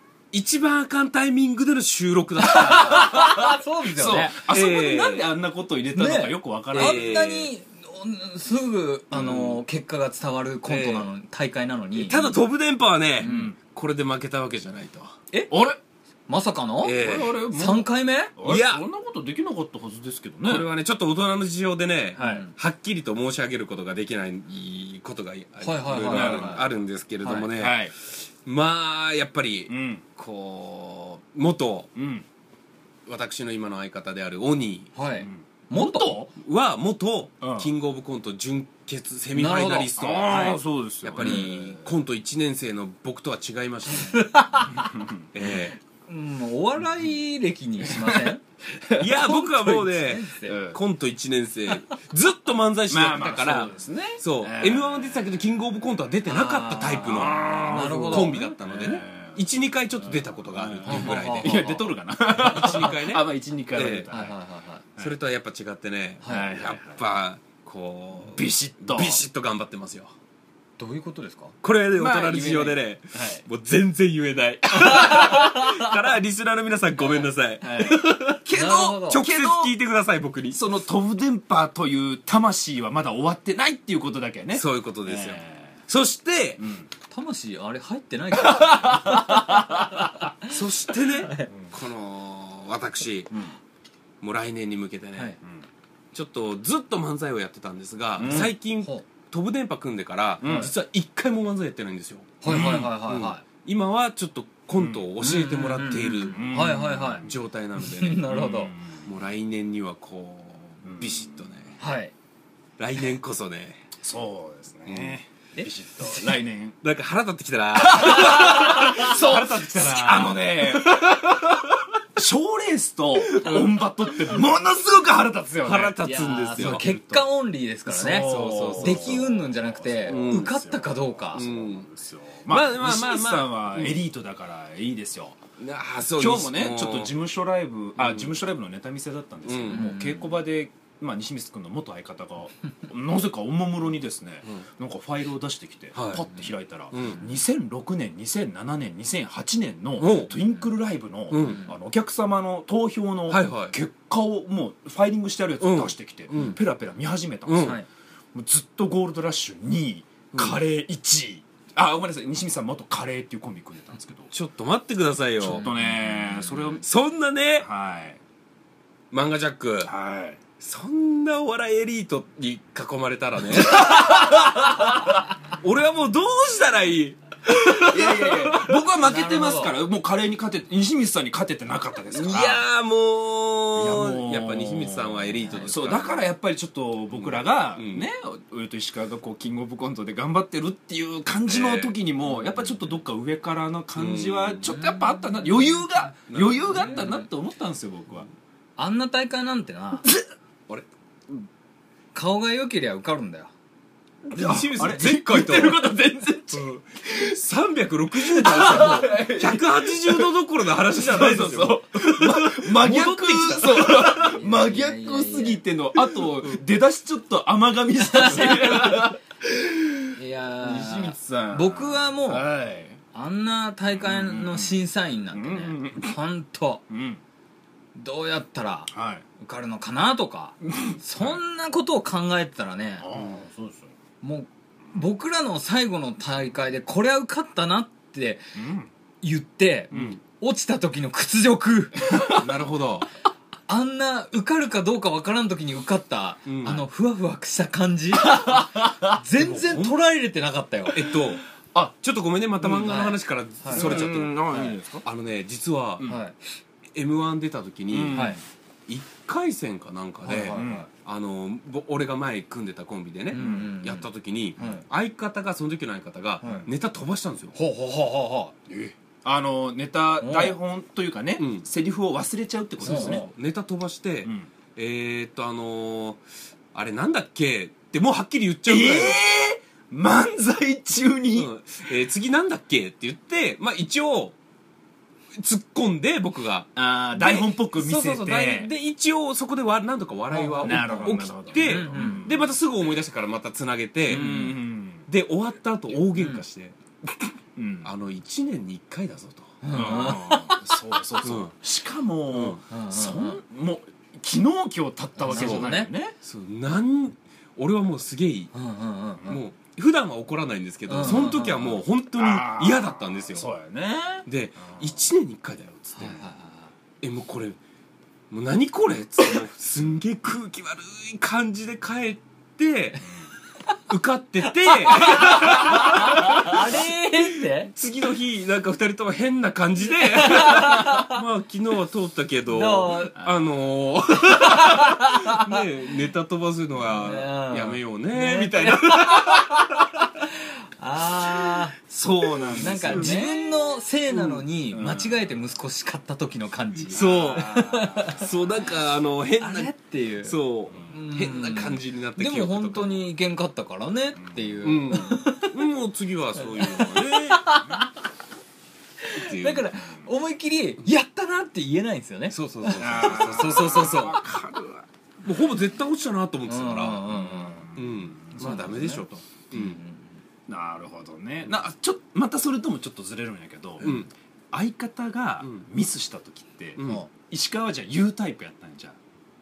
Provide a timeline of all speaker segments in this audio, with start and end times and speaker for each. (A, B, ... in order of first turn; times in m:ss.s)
0:00.3-0:03.2 A
0:02.4-0:04.4 B
0:03.0-0:07.2 C
0:04.5-0:05.3 A
0:06.0-0:12.4 B
0:06.7-0:07.5 A
0:09.2-0:09.5 A
0:10.6-0:11.1 A
0:12.0-0:15.2 A
0:13.2-0:13.5 B
0:13.2-0:13.6 C
0:15.5-0:15.8 C
0:16.3-0:17.0 B
0:16.8-0:17.4 A
0:16.9-0:20.7 C
0:17.5-0:18.3 B
0:18.4-0:18.8 A
0:20.4-0:31.9 A
0:22.2-0:22.5 B
0:22.2-0:22.4 C
0:25.6-0:26.6 B
0:25.9-0:26.7 C
0:27.2-0:27.5 B
0:27.5-0:27.9 C
0:29.7-0:30.0 C
0:31.9-0:32.2 C
0:33.0-0:34.9 A
0:34.9-0:36.2 B
0:35.2-0:36.3 C
0:36.3-0:44.3 A
0:37.4-0:37.7 C
0:39.3-0:40.6 B
0:40.0-0:41.9 C
0:43.9-0:44.9 B
0:44.7-0:45.2 C
0:45.3-0:45.8 A
0:46.0-0:48.4 B
0:47.8-0:49.1 C
0:49.0-1:01.7 A
0:49.1-0:50.6 B
0:50.4-0:50.8 C
0:52.9-0:55.3 C
0:56.2-0:58.4 B
0:57.0-0:59.4 C
1:00.3-1:04.4 C
1:00.8-1:01.8 B
1:02.3-1:04.1 A
1:04.1-1:04.8 B
1:05.0-1:10.1 A
1:06.2-1:06.5 B
1:06.2-1:07.0 C
1:08.3-1:09.2 C
1:10.8-1:11.5 B
1:11.6-1:18.4 A
1:11.9-1:13.4 C
1:14.7-1:15.9 B
1:17.6-1:19.7 C
1:18.5-1:19.2 B
1:19.1-1:20.7 A
1:20.5-1:25.8 C
1:24.5-1:26.6 A
1:26.6-1:26.9 C
1:27.1-1:30.5 B
1:28.3-1:30.0 C
1:30.5-1:33.3 A
1:31.2-1:31.5 B
1:34.2-1:35.3 A
1:36.1-1:46.5 A
1:38.2-1:38.5 C
1:38.2-1:39.0 B
1:40.4-1:40.7 C
1:42.4-1:43.4 B
1:42.4-1:42.9 C
1:44.7-1:45.0 C
1:45.2-1:47.3 B
1:46.3-1:47.3 C
1:47.2-1:48.2 A
1:47.8-1:48.7 B
1:48.3-1:49.1 C
1:49.0-1:51.8 A
1:50.8-1:51.4 C
1:51.8-1:52.1 B
1:52.8-1:53.8 A
1:54.0-1:56.8 C
1:54.9-1:55.2 A
1:55.6-1:56.3 B
1:56.8-2:01.2 A
1:57.8-2:06.0 C
1:58.0-1:59.2 B
2:03.2-2:04.4 A
2:05.6-2:06.8 A
2:06.0-2:11.4 B
2:06.5-2:07.3 C
2:07.8-2:15.4 C
2:08.1-2:09.3 A
2:10.1-2:10.5 A
2:11.3-2:11.9 A
2:12.5-2:14.0 A
2:15.6-2:17.2 A
2:16.2-2:37.8 C
2:18.0-2:18.3 A
2:19.4-2:19.9 A
2:19.7-2:20.4 B
2:25.9-2:26.4 A
2:26.9-2:27.3 A
2:30.0-2:30.4 A
2:31.3-2:31.6 A
2:31.4-2:31.7 B
2:33.3-2:33.8 A
2:35.6-2:36.6 A
2:37.5-2:37.8 A
2:37.6-2:37.8 B
2:38.3-2:44.3 C
2:40.3-2:40.6 A
2:44.3-2:45.7 A
2:45.4-2:46.8 C
2:45.6-2:46.2 B
2:46.8-2:47.7 A
2:47.6-2:48.2 C
2:49.1-2:49.9 A
2:49.8-2:50.4 C
2:50.6-2:58.8 A
2:53.5-2:54.6 C
2:57.8-3:02.6 C
2:59.0-2:59.7 B
3:02.1-3:06.3 A
3:03.8-3:18.3 C
3:07.2-3:08.1 A
3:11.5-3:11.9 A
3:14.0-3:14.8 A
3:14.7-3:15.5 B
3:16.3-3:17.2 A
3:18.8-3:20.0 B
3:22.1-3:23.5 B
3:24.3-3:25.9 A
3:24.3-3:27.2 C
3:26.5-3:34.1 A
3:28.3-3:30.3 C
3:28.4-3:29.1 B
3:30.8-3:43.0 C
3:33.8-3:35.6 B
3:38.0-3:39.1 B
3:40.2-3:42.5 B
3:43.1-3:46.8 B
3:43.9-3:44.7 C
3:45.3-3:46.2 C
3:46.9-3:47.2 C
3:48.0-3:53.1 B
3:48.9-3:49.2 C
3:50.6-3:51.4 C
3:53.0-3:53.9 C
3:54.2-3:58.5 B
3:58.5-3:58.9 C
3:59.2-4:02.4 B
3:59.9-4:00.2 C
4:02.3-4:03.1 A
4:03.7-4:11.1 B
4:06.4-4:06.8 A
4:08.2-4:09.9 C
4:10.9-4:16.1 A
4:12.6-4:13.0 C
4:12.8-4:14.8 B
4:13.7-4:15.0 C
4:16.0-4:16.3 B
4:16.9-4:18.3 A
4:17.9-4:18.4 C
4:18.1-4:18.4 B
4:18.9-4:27.5 A
4:20.2-4:20.9 B
4:20.5-4:20.9 C
4:23.3-4:24.1 B
4:23.3-4:23.7 C
4:24.6-4:24.8 B
4:26.4-4:26.7 B
4:27.5-4:28.5 B
4:28.7-4:33.3 C
4:30.2-4:30.5 B
4:31.4-4:31.6 A
4:32.8-4:36.2 A
4:32.8-4:33.3 B
4:34.2-4:34.5 C
4:36.7-4:39.2 A
4:38.6-4:41.5 C
4:41.3-4:44.3 A
4:45.4-4:54.4 A
4:46.8-4:48.7 C
4:50.3-4:52.3 B
4:50.6-4:52.4 C
4:54.1-4:55.1 C
4:54.1-4:54.5 B
4:55.1-4:56.8 A
4:56.1-4:56.4 B
4:57.6-4:57.9 C
4:57.8-5:00.2 A
4:59.6-5:00.6 B
4:59.7-5:06.1 C
5:01.2-5:01.5 A
5:02.3-5:02.6 A
5:02.7-5:03.4 B
5:05.2-5:05.9 B
5:05.3-5:08.5 A
5:08.5-5:09.4 B
5:09.3-5:13.5 A
5:10.9-5:11.7 B
5:11.0-5:14.9 C
5:14.2-5:16.2 A
5:16.0-5:16.7 B
5:17.0-5:17.6 A
5:18.3-5:23.0 A
5:23.9-5:26.8 A
5:24.6-5:27.7 B
5:27.5-5:39.9 A
5:30.2-5:31.2 B
5:32.5-5:33.2 B
5:34.3-5:35.6 B
5:37.0-5:41.7 B
5:41.9-5:43.4 C
5:42.4-5:43.4 A
5:42.6-5:48.3 B
5:44.1-5:45.2 C
5:46.9-5:48.3 C
5:46.9-5:53.0 A
5:49.4-5:55.5 B
5:54.2-5:54.5 C
5:54.6-5:57.6 A
5:56.4-5:57.9 B
5:59.0-6:04.2 B
5:59.1-5:59.7 A
6:02.3-6:04.3 A
6:02.8-6:04.8 C
6:05.2-6:09.8 A
6:06.5-6:07.7 B
6:07.2-6:08.4 C
6:08.4-6:10.2 B
6:10.5-6:13.9 C
6:13.8-6:14.1 A
6:14.5-6:19.0 C
6:16.8-6:17.0 A
6:16.8-6:17.1 B